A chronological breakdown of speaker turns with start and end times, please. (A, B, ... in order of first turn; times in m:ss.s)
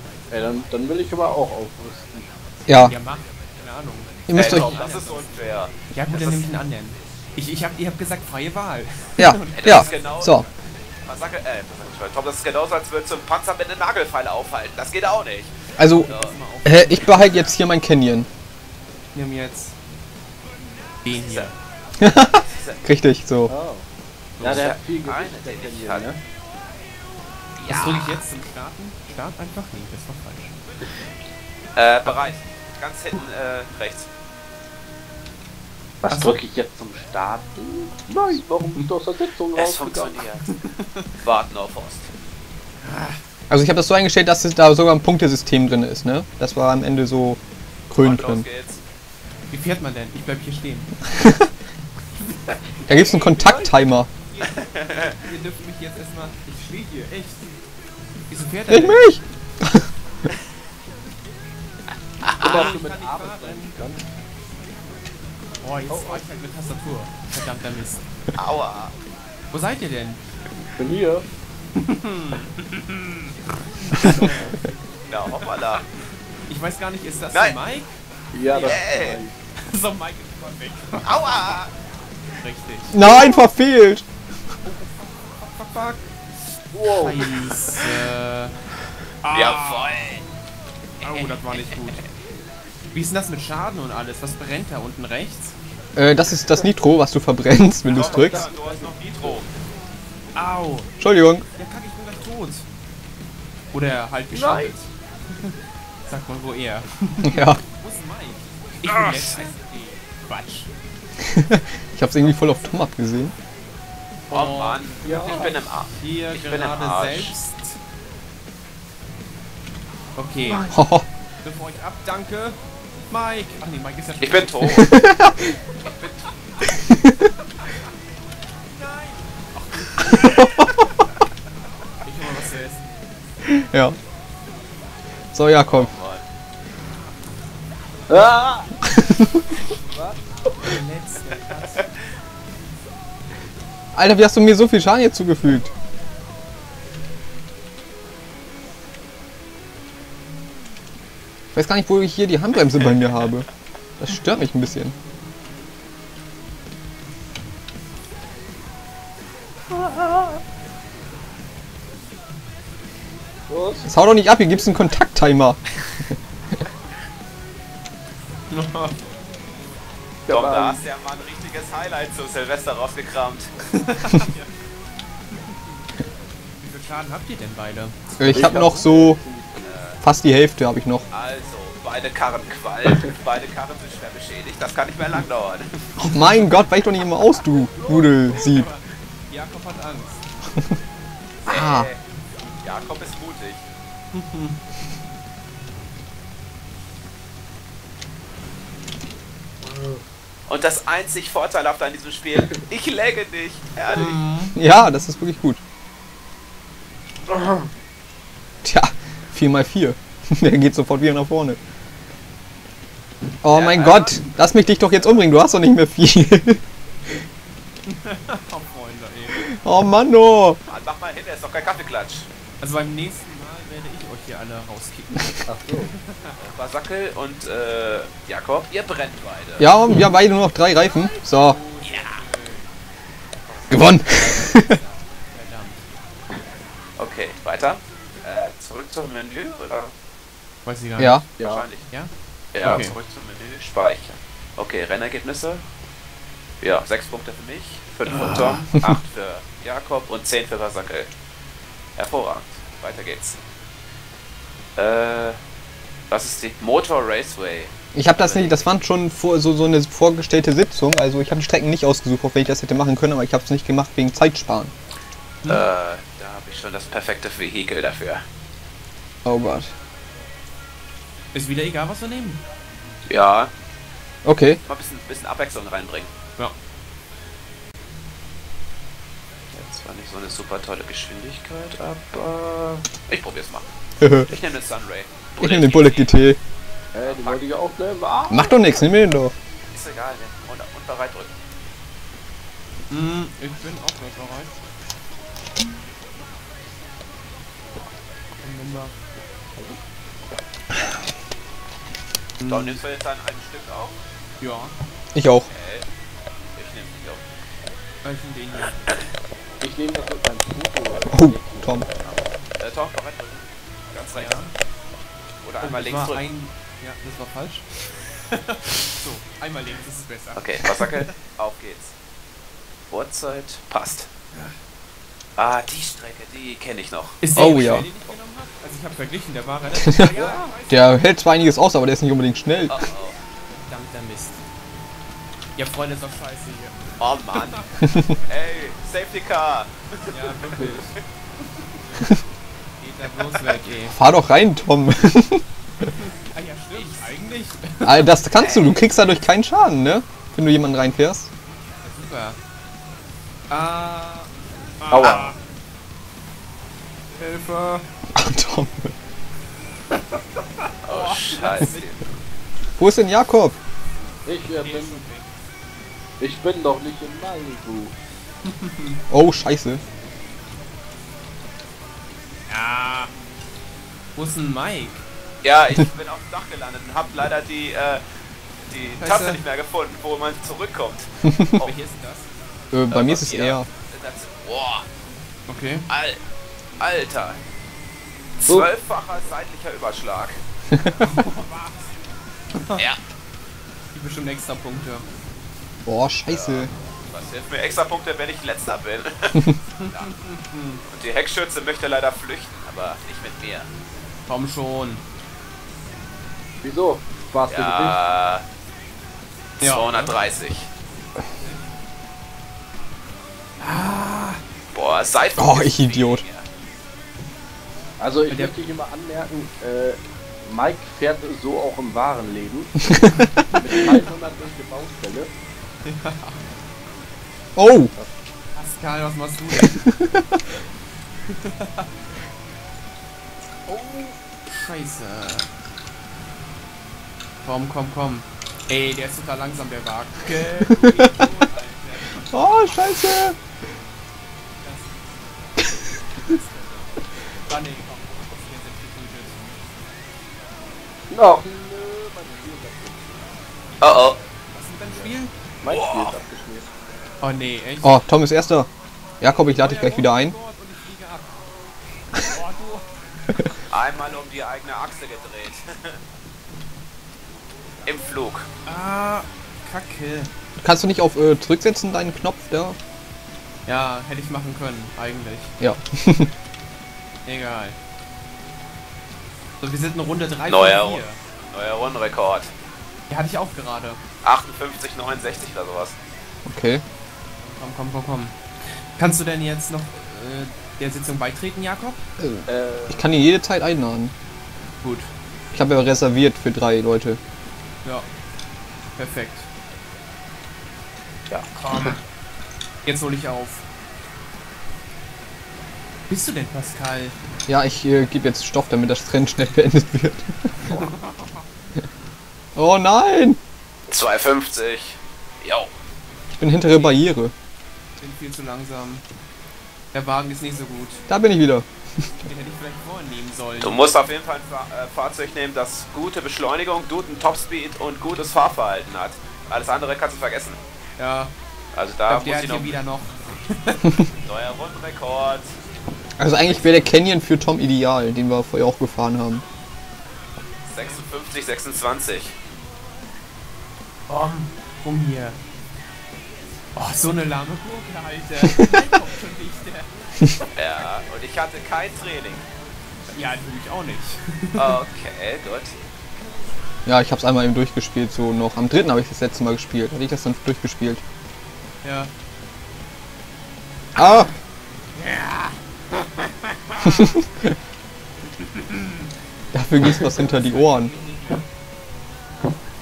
0:00.3-0:02.3 A
0:02.7-0:02.9 B
0:02.8-0:10.2 C
0:04.3-0:04.8 B
0:04.3-0:06.4 D
0:09.2-0:10.4 B
0:09.6-0:10.4 D
0:11.0-0:16.4 D
0:15.8-0:16.1 B
0:16.0-0:17.5 C
0:16.6-0:18.3 B
0:19.1-0:19.8 C
0:21.0-0:21.6 C
0:22.0-0:23.5 B
0:22.3-0:22.8 D
0:23.5-0:23.8 A
0:24.4-0:24.6 C
0:24.4-0:26.2 A
0:24.4-0:26.1 D
0:27.6-0:28.2 D
0:27.7-0:30.5 C
0:31.8-0:34.1 D
0:36.0-0:40.2 A
0:36.1-0:36.4 C
0:39.5-0:40.6 D
0:40.5-0:41.1 C
0:41.2-0:42.1 D
0:42.8-0:43.2 C
0:43.5-0:47.4 B
0:47.9-0:48.4 B
0:48.0-0:48.8 D
0:49.5-0:50.9 C
0:51.1-0:51.5 B
0:52.5-0:53.7 C
0:52.8-0:54.1 B
0:53.1-0:53.7 A
0:54.3-0:57.5 C
0:54.5-0:55.2 D
0:58.3-0:59.1 C
0:58.7-0:59.9 B
1:02.2-1:02.8 D
1:02.4-1:04.0 A
1:02.4-1:03.7 C
1:05.6-1:08.0 C
1:05.9-1:06.2 A
1:08.4-1:08.9 D
1:09.5-1:10.2 C
1:10.8-1:11.2 A
1:11.8-1:14.6 C
1:15.1-1:15.8 D
1:15.4-1:15.9 C
1:16.5-1:18.8 C
1:18.3-1:19.4 A
1:18.6-1:19.2 D
1:19.6-1:21.6 C
1:21.0-1:21.7 D
1:22.4-1:22.9 C
1:22.9-1:24.0 B
1:24.6-1:26.1 C
1:26.7-1:27.3 A
1:26.8-1:28.6 C
1:29.2-1:30.2 C
1:29.3-1:30.2 D
1:31.0-1:31.7 D
1:31.0-1:32.1 C
1:32.9-1:35.5 C
1:35.9-1:38.4 B
1:37.8-1:39.5 D
1:37.9-1:39.4 A
1:40.3-1:40.9 C
1:41.0-1:41.4 B
1:41.6-1:42.6 C
1:43.7-1:50.7 C
1:44.3-1:44.7 A
1:47.2-1:47.6 B
1:48.9-1:49.4 D
1:51.2-1:53.3 B
1:52.2-1:52.8 C
1:54.3-1:57.8 C
1:54.3-1:57.3 D
1:55.0-1:55.5 A
2:00.2-2:00.7 C
2:00.5-2:01.0 B
2:01.4-2:04.9 C
2:04.2-2:04.9 D
2:04.7-2:05.6 B
2:08.7-2:10.7 C
2:10.2-2:10.6 B
2:12.0-2:13.0 C
2:13.4-2:14.0 B
2:15.3-2:15.9 B
2:15.7-2:16.2 D
2:18.1-2:18.9 A
2:19.8-2:20.2 A
2:20.6-2:21.9 C
2:23.9-2:25.7 B
2:31.5-2:33.5 B
2:34.0-2:34.9 B
2:39.7-2:40.4 A
2:43.5-2:43.9 A
2:43.8-2:45.6 B
2:48.5-2:49.0 C
2:50.3-2:50.8 A
2:50.3-2:53.5 D
2:53.7-2:54.5 C
2:55.3-2:55.6 C
2:56.6-2:58.1 C
2:58.2-2:59.2 B
2:58.2-2:59.5 A
2:59.6-3:00.0 D
3:00.0-3:01.0 B
3:01.1-3:05.8 D
3:06.0-3:08.7 B
3:07.7-3:08.5 A
3:08.3-3:10.2 C
3:10.5-3:10.8 B
3:11.4-3:11.9 B
3:11.4-3:12.0 D
3:12.6-3:13.6 D
3:14.1-3:14.6 C
3:19.6-3:20.0 A
3:20.5-3:24.2 D
3:23.9-3:24.6 C
3:24.5-3:25.6 B
3:27.3-3:27.7 A
3:28.6-3:31.6 B
3:33.4-3:36.6 B
3:33.5-3:34.4 D
3:34.9-3:35.2 D
3:37.9-3:39.4 C
3:39.3-3:40.6 B
3:40.7-3:42.3 D
3:42.6-3:46.4 C
3:45.4-3:45.9 A
3:46.4-3:49.7 D
3:49.6-3:51.6 B
3:50.9-3:52.7 C
3:51.8-3:52.2 D
3:53.7-3:54.8 B
3:54.5-3:55.8 C
3:57.0-3:59.9 D
4:00.6-4:01.2 C
4:01.0-4:01.2 B
4:01.4-4:01.9 D
4:01.4-4:01.6 A
4:01.9-4:02.9 C
4:02.5-4:05.6 D
4:06.6-4:11.1 D
4:08.1-4:08.6 C
4:12.0-4:13.4 D
4:14.8-4:15.4 D
4:16.1-4:18.6 D
4:17.9-4:24.7 B
4:25.5-4:28.2 D
4:29.2-4:29.7 B
4:31.3-4:32.4 C
4:33.1-4:33.5 D
4:34.2-4:34.6 B
4:34.6-4:36.1 D
4:39.5-4:43.7 D
4:44.0-4:44.3 B
4:44.3-4:46.2 D
4:45.4-4:46.4 B
4:46.9-4:48.7 A
4:47.0-4:47.4 D
4:48.3-4:49.3 B
4:49.7-4:51.3 D
4:52.9-4:54.6 C
4:58.4-4:58.9 C
5:02.4-5:02.8 C
5:02.5-5:04.0 D
5:04.4-5:04.7 C
5:05.1-5:05.5 B
5:05.5-5:05.8 D
5:06.6-5:07.2 D
5:08.0-5:08.8 C
5:09.6-5:12.2 A
5:11.1-5:11.9 B
5:12.6-5:14.4 D
5:14.1-5:14.5 C
5:15.4-5:16.2 D
5:15.6-5:17.6 C
5:18.3-5:20.9 C
5:20.4-5:21.9 D
5:22.9-5:24.1 D
5:25.4-5:27.2 D
5:27.2-5:31.0 C
5:27.3-5:27.9 B
5:29.8-5:32.9 B
5:32.7-5:33.2 D
5:33.6-5:34.4 C
5:35.6-5:38.2 C
5:37.0-5:37.6 D
5:38.2-5:40.1 D
5:40.1-5:41.0 C
5:42.8-5:44.0 C
5:43.9-5:45.4 B
5:46.0-5:48.1 C
5:46.7-5:47.0 D
5:47.8-5:51.3 B
5:48.3-5:49.0 D
5:51.8-5:52.4 C
5:53.5-5:55.4 C
5:54.9-5:55.4 A
5:57.2-5:57.8 C
5:58.1-5:58.9 B
6:00.1-6:02.0 C
6:00.8-6:01.9 D
6:02.8-6:03.6 B
6:04.2-6:05.0 A
6:04.6-6:05.3 C
6:06.2-6:07.9 A
6:08.4-6:09.0 C
6:09.1-6:09.8 B
6:12.5-6:13.1 C
6:14.1-6:15.0 C
6:15.4-6:18.0 D
6:18.6-6:21.7 D
6:19.0-6:19.4 C
6:21.3-6:21.6 B
6:21.6-6:22.3 C
6:22.7-6:23.7 B
6:22.9-6:24.8 D
6:25.5-6:25.8 C
6:25.9-6:26.2 D
6:26.8-6:27.4 D
6:28.4-6:30.4 D
6:31.0-6:31.9 C
6:32.5-6:32.8 C
6:33.9-6:35.0 C
6:35.8-6:36.7 B
6:36.3-6:40.1 D
6:39.8-6:40.8 C
6:40.9-6:43.7 D
6:44.3-6:45.0 C
6:46.6-6:48.0 A
6:47.5-6:48.4 D
6:49.6-6:50.1 C
6:49.6-6:50.7 D
6:51.4-6:51.6 C
6:53.6-6:54.4 C
6:54.7-6:56.4 D
6:55.4-6:56.2 B
6:58.0-7:03.0 A
6:58.3-6:58.5 C
7:02.9-7:03.5 B
7:03.5-7:05.3 A
7:05.8-7:06.4 C
7:07.6-7:07.9 B
7:08.5-7:09.8 C
7:09.6-7:10.2 B
7:11.3-7:11.9 C
7:13.7-7:15.5 C
7:17.4-7:22.8 C
7:20.7-7:21.1 B
7:22.3-7:23.4 B
7:24.6-7:29.4 C
7:31.1-7:33.4 A
7:33.8-7:34.2 D
7:34.5-7:35.3 C
7:34.9-7:36.7 A
7:35.7-7:36.1 D
7:37.2-7:37.9 C
7:37.8-7:38.7 B
7:39.2-7:40.3 B
7:39.5-7:41.5 C
7:42.2-7:42.9 C
7:43.7-7:46.0 D
7:47.8-7:48.5 D
7:48.6-7:50.3 C
7:50.6-7:52.8 B
7:53.6-7:55.5 C
7:55.6-7:56.3 B
7:57.2-7:57.8 C
7:59.6-8:01.2 C
8:00.5-8:02.5 D
8:03.1-8:04.0 C
8:04.2-8:05.9 D
8:06.4-8:06.8 B
8:07.4-8:12.0 C
8:12.2-8:14.1 B
8:12.4-8:13.1 A
8:14.8-8:15.1 C
8:15.5-8:17.2 B
8:19.0-8:19.5 C
8:21.3-8:22.0 A
8:21.5-8:22.0 C
8:22.8-8:23.6 C
8:26.1-8:27.1 C
8:27.5-8:30.8 B
8:30.7-8:31.4 C
8:32.5-8:33.4 B
8:33.9-8:35.7 D
8:36.3-8:37.3 B
8:36.6-8:37.0 C
8:38.0-8:39.0 C
8:39.9-8:41.0 C
8:41.1-8:42.1 B
8:42.2-8:43.8 C
8:43.6-8:50.6 D
8:51.0-8:51.3 C
8:51.7-8:52.8 D
8:52.1-8:54.0 C
8:54.2-8:55.5 D
8:56.2-8:59.4 B
9:00.7-9:01.0 C
9:00.7-9:02.4 D
9:04.1-9:05.4 C
9:06.7-9:09.9 C
9:10.5-9:12.5 D
9:13.1-9:14.8 C
9:14.6-9:15.7 D
9:16.8-9:21.0 B
9:21.8-9:22.1 C
9:24.0-9:24.3 B
9:24.0-9:24.3 C
9:25.0-9:25.6 C
9:26.6-9:27.2 C
9:26.9-9:27.2 B
9:28.4-9:29.1 C
9:29.5-9:30.9 B
9:30.2-9:31.4 C